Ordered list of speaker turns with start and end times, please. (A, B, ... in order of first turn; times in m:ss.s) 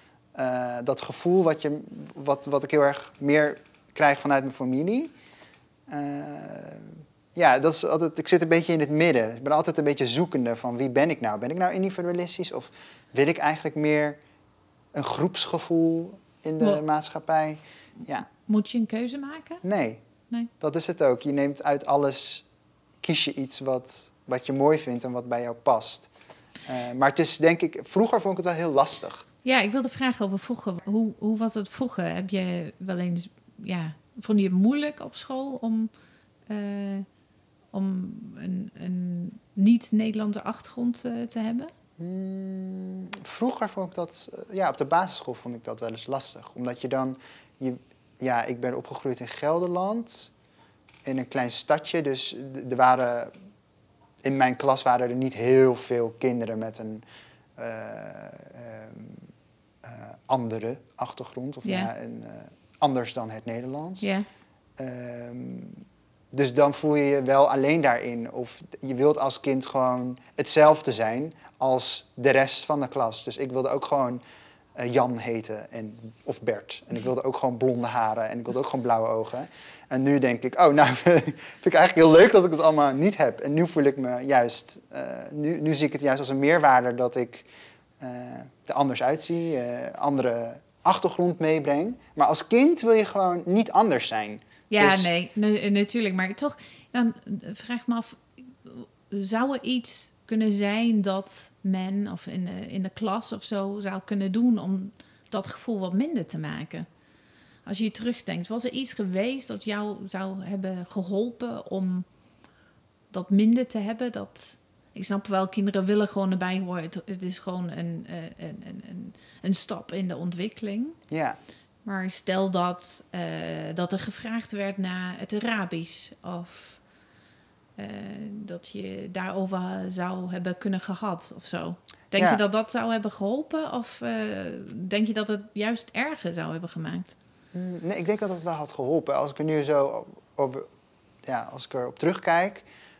0:00.4-0:05.1 A
0:05.9-0:14.2 A
0:14.9-0:18.3 A
0:18.0-0:19.6 B
0:19.6-0:20.0 A
0:20.6-0:22.4 A
0:23.0-0:26.1 A
0:26.7-0:29.3 A
0:29.4-0:35.9 B
0:36.5-0:37.1 B
0:37.7-0:41.7 B
0:42.0-0:50.3 A
0:51.0-0:53.3 A
0:54.2-0:57.0 A
0:57.6-0:59.3 A
0:59.8-1:04.1 A
1:01.6-1:01.9 B
1:04.0-1:04.3 B
1:04.8-1:14.2 A
1:14.8-1:27.5 A
1:28.0-1:35.1 A
1:34.7-1:46.9 B
1:47.6-1:52.1 B
1:53.1-2:01.0 B
2:01.1-2:01.4 A
2:01.8-2:06.8 B
2:07.8-2:17.1 B
2:12.1-2:12.4 A
2:17.5-2:20.7 A
2:21.2-2:22.7 A